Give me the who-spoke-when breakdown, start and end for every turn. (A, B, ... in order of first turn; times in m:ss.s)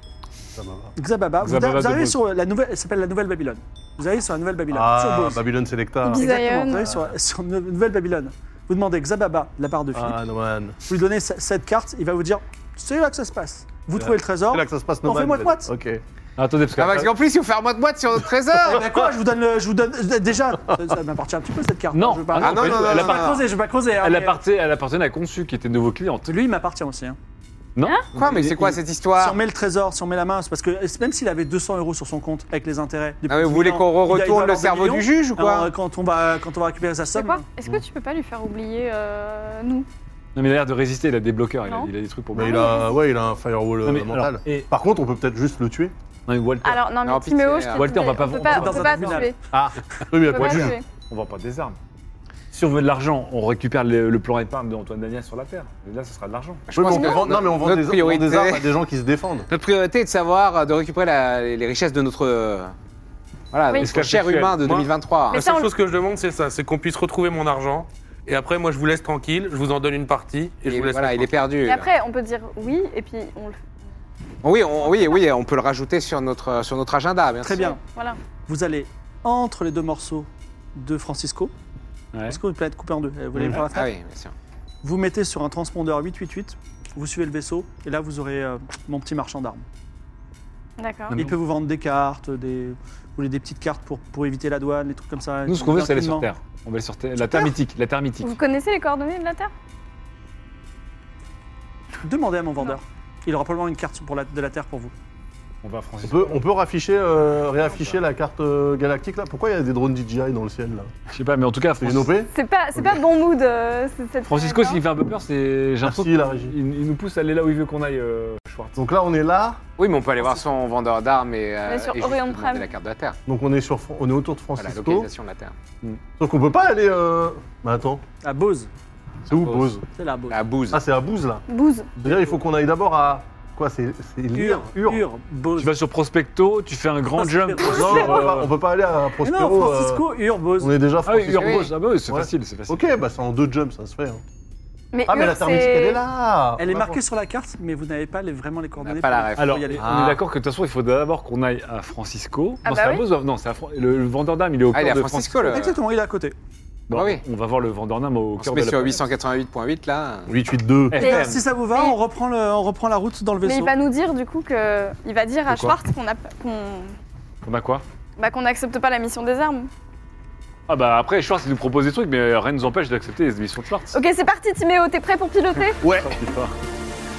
0:00.6-0:00.9 A
0:01.0-0:05.4 B
0:01.4-0:02.2 C
0:04.7-0:07.1 A
0:06.0-0:10.2 B
0:06.1-0:06.9 D
0:09.9-0:10.8 A
0:10.9-0:15.7 B
0:14.0-0:16.0 A
0:16.4-0:17.2 C
0:16.8-0:18.9 E
0:18.6-0:24.4 B
0:21.9-0:23.4 C
0:22.4-0:23.4 E
0:24.0-0:26.3 C
0:26.3-0:27.2 B
0:27.8-0:28.0 C
0:27.8-0:28.1 D
0:28.2-0:29.4 E
0:28.2-0:37.4 B
0:33.3-0:35.7 E
0:37.2-0:39.9 D
0:40.4-0:42.8 C
0:41.6-0:42.9 D
0:42.4-0:45.9 A
0:43.8-0:44.7 C
0:46.3-0:46.8 C
0:46.6-0:49.4 D
0:47.0-0:48.0 E
0:47.8-0:49.2 C
0:48.4-0:49.3 B
0:49.5-0:50.8 A
0:50.2-0:50.8 D
0:50.3-0:51.8 C
0:52.5-0:56.6 C
0:56.7-0:58.7 E
0:56.8-0:59.5 A
0:56.8-0:57.3 D
0:59.5-1:02.7 E
1:03.5-1:05.4 E
1:03.8-1:04.6 C
1:04.6-1:11.3 F
1:05.3-1:05.7 D
1:10.7-1:11.9 E
1:11.6-1:13.6 D
1:14.4-1:17.7 E
1:17.4-1:17.8 B
1:17.6-1:18.2 D
1:18.5-1:21.5 B
1:22.1-1:22.4 C
1:22.3-1:23.9 B
1:23.3-1:23.6 A
1:23.5-1:24.3 E
1:24.8-1:29.6 B
1:30.8-1:31.2 D
1:31.2-1:36.3 B
1:35.5-1:38.3 C
1:38.2-1:39.5 D
1:42.0-1:44.9 B
1:45.6-1:46.4 C
1:46.0-1:50.9 A
1:51.1-1:52.1 C
1:51.8-1:53.0 A
1:52.3-1:54.8 D
1:54.3-1:58.8 C
1:55.8-1:56.6 A
1:58.8-1:59.6 A
1:59.8-2:03.2 E
2:01.6-2:02.7 D
2:03.3-2:05.1 A
2:04.6-2:05.5 E
2:06.2-2:08.0 A
2:08.2-2:08.7 B
2:09.3-2:09.9 A
2:09.3-2:09.7 E
2:09.9-2:10.4 B
2:10.3-2:10.8 E
2:10.7-2:11.4 A
2:11.5-2:11.9 D
2:12.0-2:15.0 A
2:14.3-2:15.7 B
2:15.6-2:18.5 C
2:17.2-2:18.4 B
2:17.7-2:24.2 A
2:19.2-2:20.7 B
2:21.0-2:22.9 C
2:21.4-2:21.7 E
2:24.9-2:26.0 D
2:25.1-2:27.0 A
2:26.6-2:30.0 B
2:28.8-2:29.6 E
2:29.4-2:35.6 C
2:29.7-2:30.2 A
2:32.6-2:33.0 D
2:34.7-2:35.8 E
2:35.5-2:36.4 B
2:36.9-2:39.1 C
2:36.9-2:37.2 E
2:38.4-2:40.3 E
2:40.3-2:41.0 A
2:40.9-2:41.4 C
2:41.0-2:43.7 B
2:41.0-2:42.0 D
2:43.4-2:46.9 D
2:45.5-2:45.8 C
2:47.4-2:47.8 C
2:48.2-2:49.7 D
2:50.7-2:53.9 C
2:53.9-2:55.9 D
2:55.7-2:56.5 C